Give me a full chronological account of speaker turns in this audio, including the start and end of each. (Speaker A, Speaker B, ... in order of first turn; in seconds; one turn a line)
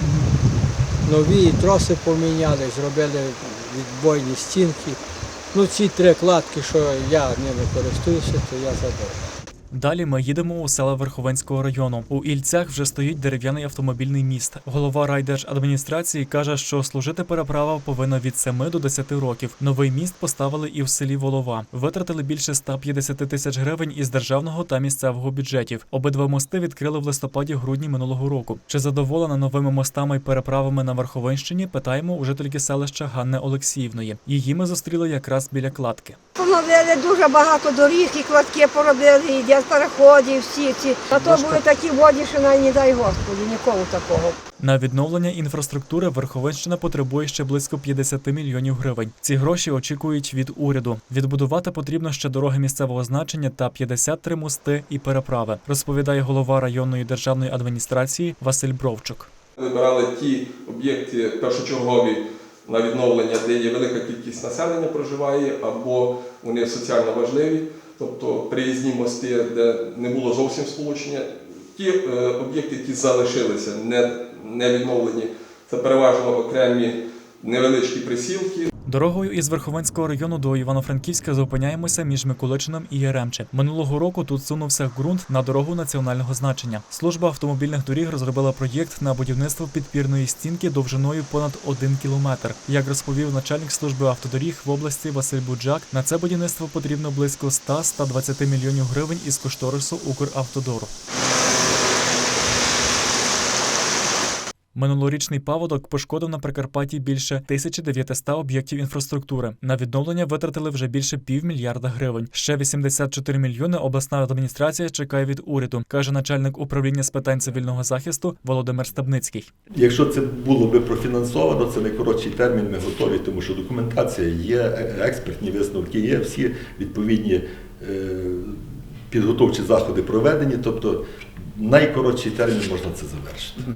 Speaker A: 1.0-5.0
Speaker A: 5.5-9.3
Speaker B: 9.7-36.2
Speaker C: 36.4-44.4
Speaker B: 41.1-41.6
Speaker B: 44.6-59.3
Speaker D: 59.6-78.7
Speaker B: 78.8-100.9
Speaker B: 104.7-119.5
Speaker E: 119.7-133.6